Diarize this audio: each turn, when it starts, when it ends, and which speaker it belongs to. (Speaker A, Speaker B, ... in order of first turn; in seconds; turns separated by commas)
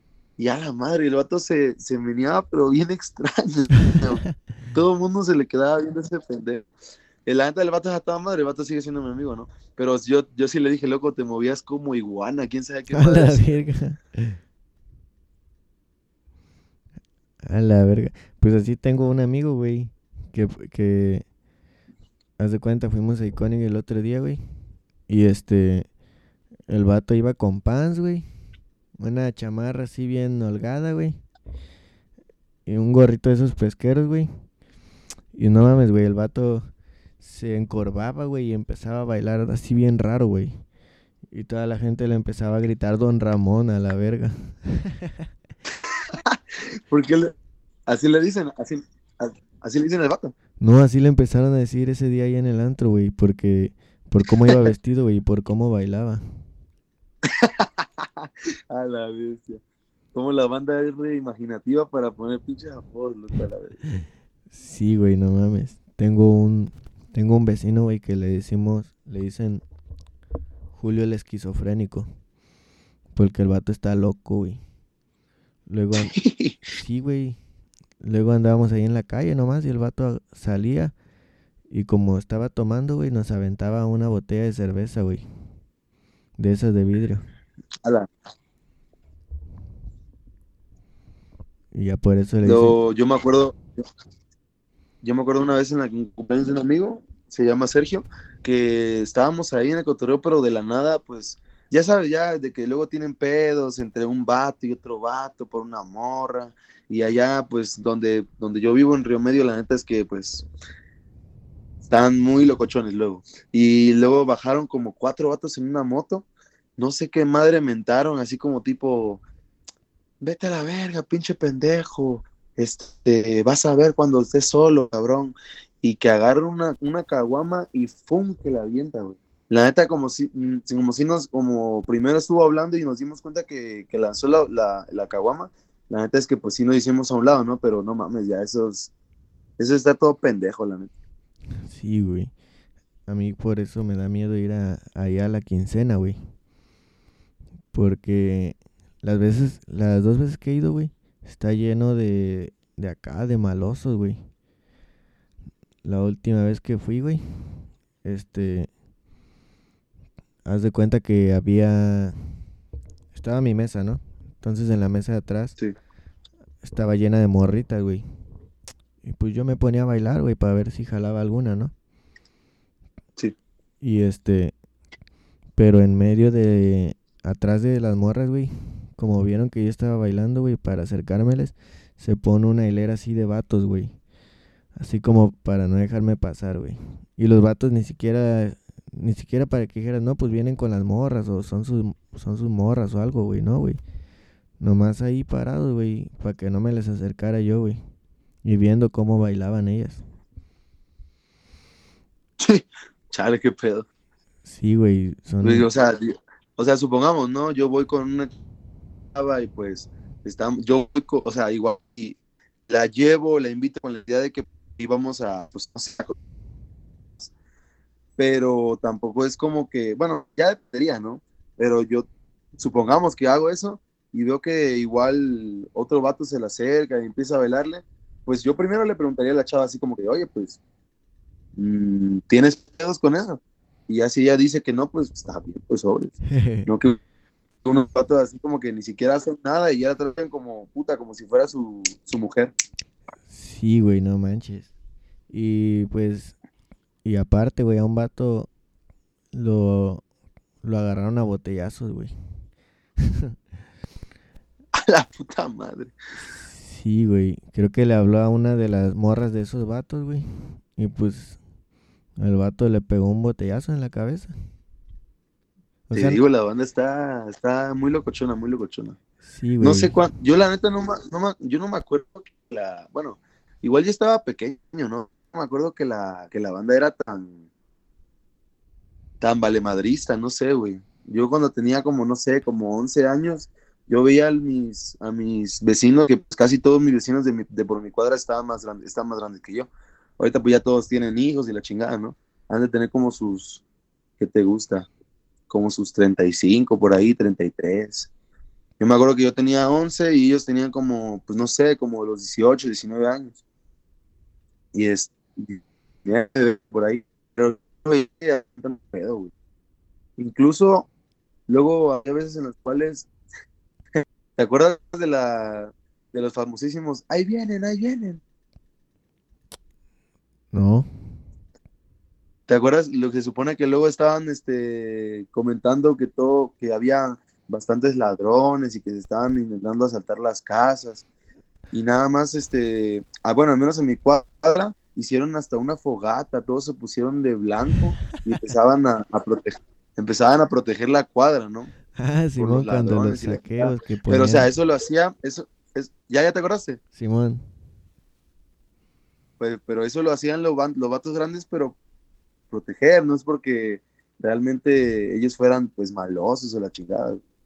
Speaker A: 0.4-4.2, Speaker A: 4.7-6.7, Speaker A: 7.3-13.6, Speaker B: 12.9-14.4, Speaker B: 17.5-21.2, Speaker B: 22.4-24.4, Speaker B: 25.1-25.9, Speaker B: 26.7-28.2, Speaker B: 29.0-31.2, Speaker B: 32.7-34.3, Speaker B: 35.3-40.5, Speaker B: 41.3-45.1, Speaker A: 46.1-46.4, Speaker A: 46.9-47.4, Speaker A: 47.9-50.3, Speaker B: 50.6-56.2, Speaker A: 57.3-59.6, Speaker A: 60.1-63.8, Speaker B: 64.5-69.6, Speaker B: 70.7-72.1, Speaker B: 73.2-74.6, Speaker B: 75.7-76.2, Speaker A: 76.1-76.6, Speaker B: 76.8-77.4, Speaker B: 78.0-80.9, Speaker B: 81.7-85.2, Speaker B: 86.4-87.2, Speaker B: 91.7-92.8, Speaker A: 92.4-93.7, Speaker A: 95.0-110.5, Speaker A: 111.8-116.3, Speaker A: 116.8-119.2, Speaker A: 120.2-138.9, Speaker A: 139.6-140.9, Speaker B: 141.7-142.3, Speaker B: 143.1-146.2, Speaker B: 147.7-154.2, Speaker B: 155.8-158.7, Speaker B: 160.4-162.4, Speaker B: 163.1-165.6, Speaker B: 166.6-168.0, Speaker B: 169.0-171.7, Speaker B: 173.8-174.6, Speaker B: 175.6-183.9, Speaker B: 184.8-193.8, Speaker B: 194.6-197.8, Speaker B: 198.4-200.0, Speaker A: 202.4-203.9, Speaker B: 204.5-205.7, Speaker A: 205.4-208.3, Speaker A: 209.2-212.2, Speaker A: 212.7-216.2, Speaker A: 218.2-230.6, Speaker A: 231.6-236.2, Speaker B: 236.3-236.7, Speaker A: 236.7-237.0, Speaker A: 237.7-242.5, Speaker B: 243.3-244.7, Speaker B: 245.3-246.4, Speaker B: 247.1-248.5, Speaker B: 249.3-250.0, Speaker B: 250.6-252.1, Speaker B: 253.0-253.3, Speaker A: 254.8-255.9, Speaker B: 256.4-261.4, Speaker B: 262.2-264.3, Speaker B: 265.9-266.2, Speaker A: 265.9-269.0, Speaker B: 269.2-269.9, Speaker A: 269.6-277.4, Speaker A: 279.2-293.6, Speaker A: 294.2-294.9, Speaker A: 295.5-298.1, Speaker A: 298.8-303.4, Speaker A: 304.7-309.3, Speaker A: 310.2-310.9, Speaker A: 311.5-313.1, Speaker A: 314.0-318.2, Speaker B: 320.5-320.9, Speaker A: 322.5-331.0, Speaker A: 331.7-341.7, Speaker B: 341.9-344.5, Speaker A: 342.4-346.8, Speaker B: 346.9-347.4, Speaker A: 349.4-351.8, Speaker A: 352.5-357.2